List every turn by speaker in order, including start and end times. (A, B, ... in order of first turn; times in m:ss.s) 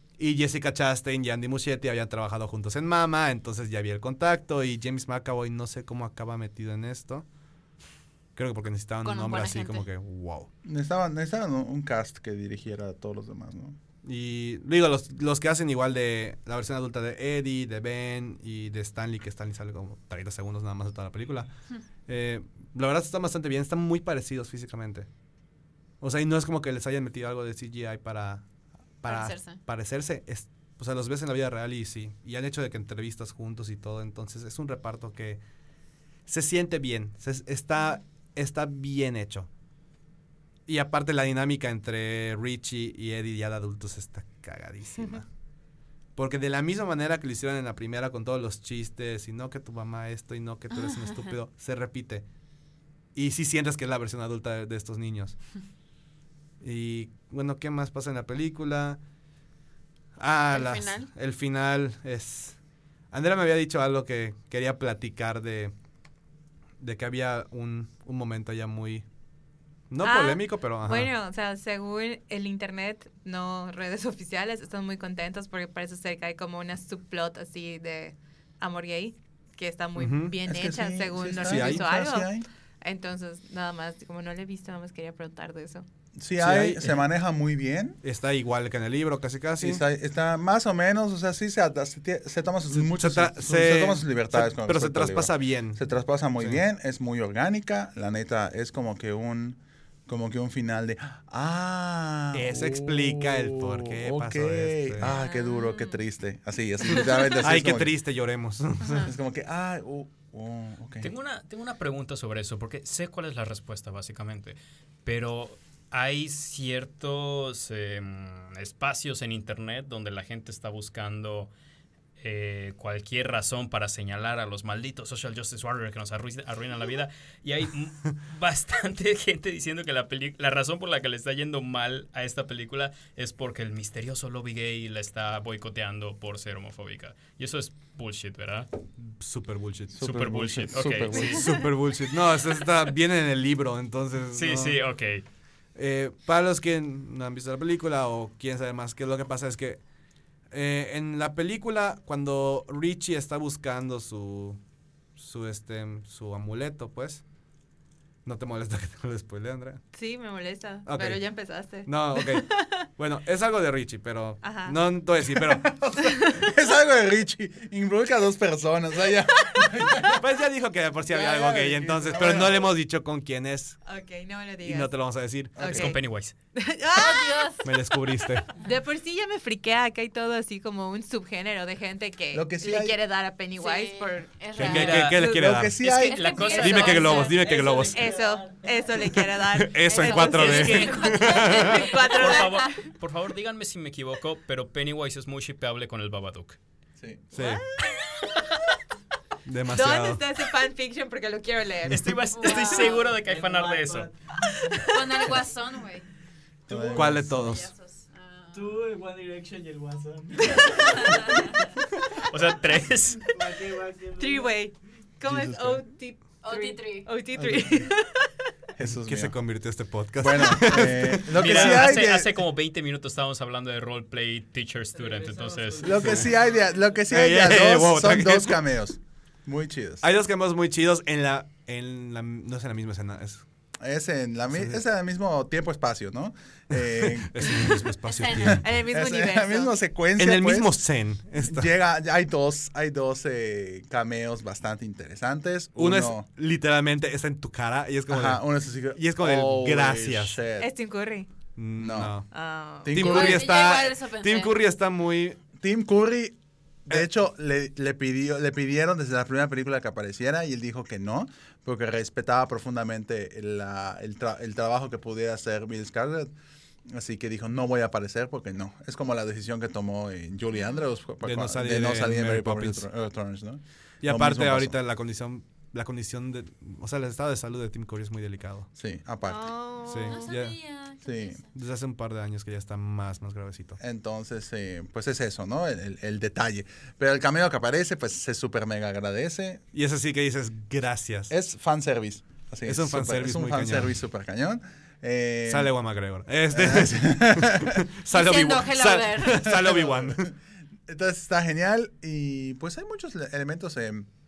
0:00.2-0:07.2 A
0:08.4-0:10.5 A
0:09.0-0:09.9 B
0:10.6-0:13.8 C
0:14.0-0:21.5 A
0:22.1-0:25.1 A
0:26.0-0:28.4 A
0:29.0-0:35.4 A
0:29.0-0:29.6 B
0:36.2-0:39.5 A
0:40.7-0:45.3 A
0:46.2-0:52.2 A
0:50.8-0:51.3 B
0:53.1-0:55.4 A
0:56.6-0:59.0 A
1:00.2-1:02.6 A
1:00.5-1:01.1 B
1:03.1-1:05.7 A
1:06.8-1:09.0 A
1:09.9-1:11.1 A
1:10.0-1:25.8 D
1:20.0-1:20.4 A
1:20.4-1:22.4 C
1:21.3-1:21.9 A
1:26.2-1:28.0 C
1:26.4-1:27.0 A
1:28.0-1:29.8 A
1:29.6-1:47.9 C
1:32.7-1:35.8 A
1:42.3-1:45.1 A
1:45.0-1:46.0 D
1:47.4-1:49.1 A
1:49.0-1:51.1 C
1:51.0-2:01.5 E
2:02.2-2:18.7 E
2:19.0-2:20.2 A
2:20.0-2:21.6 C
2:20.0-2:21.5 E
2:21.1-2:24.8 A
2:24.3-2:25.2 E
2:25.7-2:29.8 A
2:30.5-2:34.6 A
2:35.2-2:37.2 A
2:38.2-2:39.8 A
2:39.9-2:42.8 D
2:40.8-2:41.2 A
2:41.8-2:45.7 A
2:44.4-2:44.8 D
2:45.3-2:50.2 C
2:46.0-2:46.5 D
2:49.5-2:50.1 D
2:50.1-2:53.8 A
2:51.1-2:52.7 C
2:53.8-2:54.9 D
2:54.6-2:55.7 A
2:55.6-2:55.9 C
2:55.6-2:56.0 D
2:55.6-2:56.3 E
2:56.5-2:57.8 D
2:56.9-2:57.7 B
2:57.6-2:58.5 A
2:58.4-3:12.8 D
3:02.3-3:03.0 C
3:03.6-3:05.1 B
3:04.6-3:05.8 A
3:04.6-3:05.2 E
3:05.2-3:06.4 C
3:05.8-3:07.1 E
3:06.0-3:07.3 B
3:06.5-3:08.0 A
3:07.2-3:09.4 F
3:09.5-3:11.8 A
3:09.9-3:12.6 B
3:10.1-3:16.6 E
3:17.0-3:17.3 C
3:17.3-3:17.6 A
3:17.4-3:18.3 D
3:19.4-3:20.2 A
3:19.6-3:22.5 D
3:21.9-3:24.1 E
3:22.3-3:23.1 B
3:23.1-3:25.2 F
3:24.8-3:26.0 B
3:26.7-3:27.6 C
3:26.7-3:28.8 B
3:26.9-3:27.7 A
3:28.5-3:31.4 F
3:32.3-3:33.3 E
3:33.3-3:34.7 F
3:34.2-3:38.3 D
3:35.2-3:35.8 C
3:36.4-3:37.1 B
3:37.3-3:37.9 C
3:38.8-3:39.3 C
3:38.9-3:42.0 A
3:40.2-3:42.3 C
3:41.3-3:46.2 E
3:44.9-3:47.1 F
3:45.8-3:50.0 C
3:47.1-3:48.6 A
3:50.0-3:53.4 A
3:53.8-4:00.8 C
3:54.5-3:54.8 A
3:56.7-3:58.6 A
3:58.0-3:58.6 B
3:58.6-3:59.7 D
4:00.2-4:01.7 A
4:01.4-4:06.2 C
4:05.8-4:10.4 A
4:08.1-4:10.7 C
4:10.6-4:11.3 D
4:11.6-4:12.2 A
4:11.8-4:12.2 C
4:12.3-4:13.0 D
4:12.8-4:13.4 C
4:12.9-4:15.4 A
4:13.0-4:14.5 B
4:15.6-4:26.3 C
4:26.9-4:34.8 C
4:31.2-4:32.9 A
4:34.0-4:38.7 A
4:38.8-4:39.5 C
4:39.2-4:40.2 D
4:39.8-4:40.6 A
4:40.0-4:41.5 B
4:41.0-4:41.4 C
4:41.5-4:43.8 A
4:43.8-4:49.6 C
4:49.7-4:51.3 A
4:51.3-4:55.7 C
4:52.6-4:53.9 A
4:55.4-5:00.3 A
4:56.5-4:57.8 C
4:58.1-4:59.6 B
4:59.3-5:04.1 C